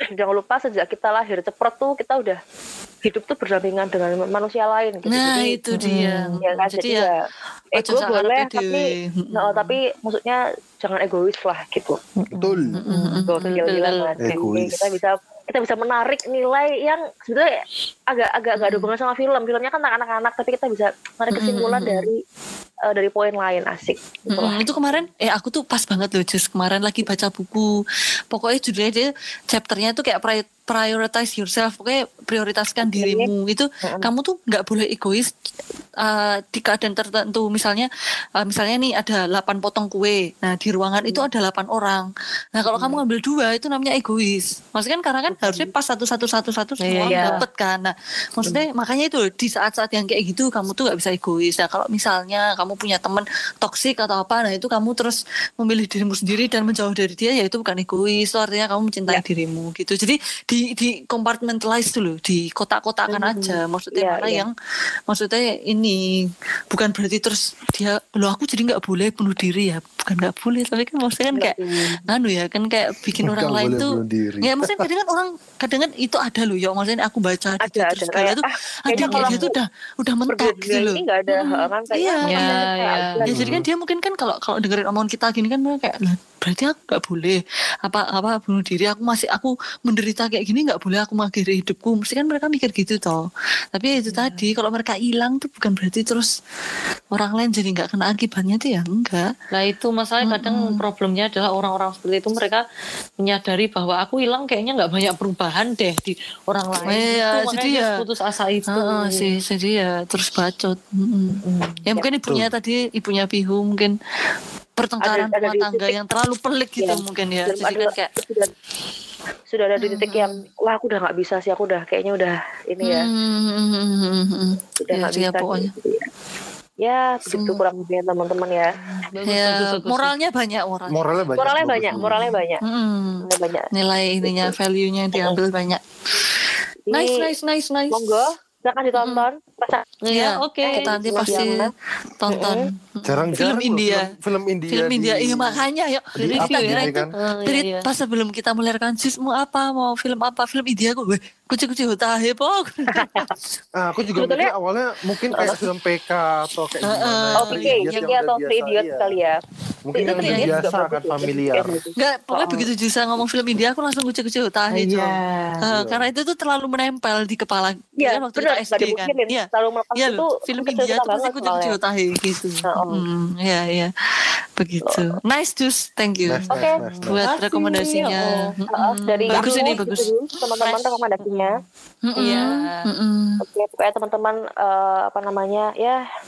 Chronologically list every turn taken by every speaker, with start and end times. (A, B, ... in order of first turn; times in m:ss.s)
0:00.2-0:02.4 A
0:03.0-0:05.6 A
0:05.1-0:07.1 B
0:05.7-0:06.4 C
0:06.4-0:07.1 A
0:07.8-0:09.7 B
0:07.8-0:12.0 A
0:12.2-0:14.4 C
0:12.3-0:12.7 D
0:12.8-0:13.4 B
0:13.3-0:17.5 A
0:14.2-0:14.9 D
0:18.1-0:22.2 A
0:21.3-0:22.0 B
0:22.9-0:24.6 A
0:24.3-0:27.6 B
0:28.3-0:35.3 B
0:32.8-0:33.3 A
0:33.8-0:34.1 A
0:36.0-0:37.9 B
0:38.4-0:42.0 B
0:42.6-1:04.5 B
0:42.6-0:43.0 A
0:45.3-0:45.7 A
0:46.8-0:47.4 C
0:47.1-0:47.4 A
1:03.1-1:04.4 A
1:05.1-1:06.0 B
1:06.7-1:21.0 B
1:11.4-1:12.0 A
1:13.2-1:14.8 D
1:17.6-1:19.5 A
1:19.0-1:19.4 C
1:20.3-1:23.4 A
1:21.9-1:22.7 B
1:22.2-1:23.2 C
1:23.2-1:33.2 B
1:23.3-1:23.7 D
1:33.7-1:36.3 B
1:34.0-1:34.5 C
1:37.1-1:39.3 B
1:39.5-1:42.6 C
1:40.2-1:40.7 B
1:43.2-1:49.3 C
1:46.9-1:47.9 B
1:48.7-1:53.9 B
1:51.3-1:51.8 C
1:54.8-1:58.1 B
1:55.0-1:55.9 A
1:56.8-1:58.5 A
1:59.5-2:03.1 A
1:59.8-2:00.3 B
2:02.8-2:05.7 B
2:04.8-2:06.1 A
2:06.8-2:08.7 A
2:07.3-2:07.6 B
2:08.8-2:10.1 C
2:09.2-2:15.8 B
2:10.9-2:12.2 D
2:11.4-2:12.6 A
2:13.2-2:13.7 A
2:14.2-2:14.5 A
2:16.9-2:17.3 A
2:16.9-2:18.1 B
2:17.9-2:19.8 A
2:20.0-2:21.4 C
2:20.1-2:21.6 B
2:20.7-2:21.7 A
2:22.2-2:24.1 B
2:22.3-2:22.6 A
2:23.0-2:25.6 D
2:24.7-2:33.3 B
2:26.2-2:27.1 D
2:26.4-2:27.9 C
2:32.9-2:33.2 A
2:33.8-2:39.2 D
2:34.2-2:34.5 A
2:36.8-2:38.1 B
2:37.4-2:39.4 A
2:39.8-2:41.7 D
2:39.9-2:42.7 A
2:40.1-2:40.6 B
2:42.0-2:53.9 B
2:44.7-2:45.6 C
2:45.7-2:46.1 D
2:48.0-2:51.8 A
2:52.7-2:53.0 A
2:54.6-2:56.4 B
2:54.9-2:55.1 A
2:56.2-2:57.2 D
2:56.5-2:58.5 C
2:57.0-3:00.1 B
2:58.7-3:01.5 A
2:59.2-2:59.8 C
3:00.6-3:01.0 B
3:01.2-3:01.6 C
3:02.1-3:03.4 B
3:02.2-3:02.8 C
3:03.4-3:06.0 A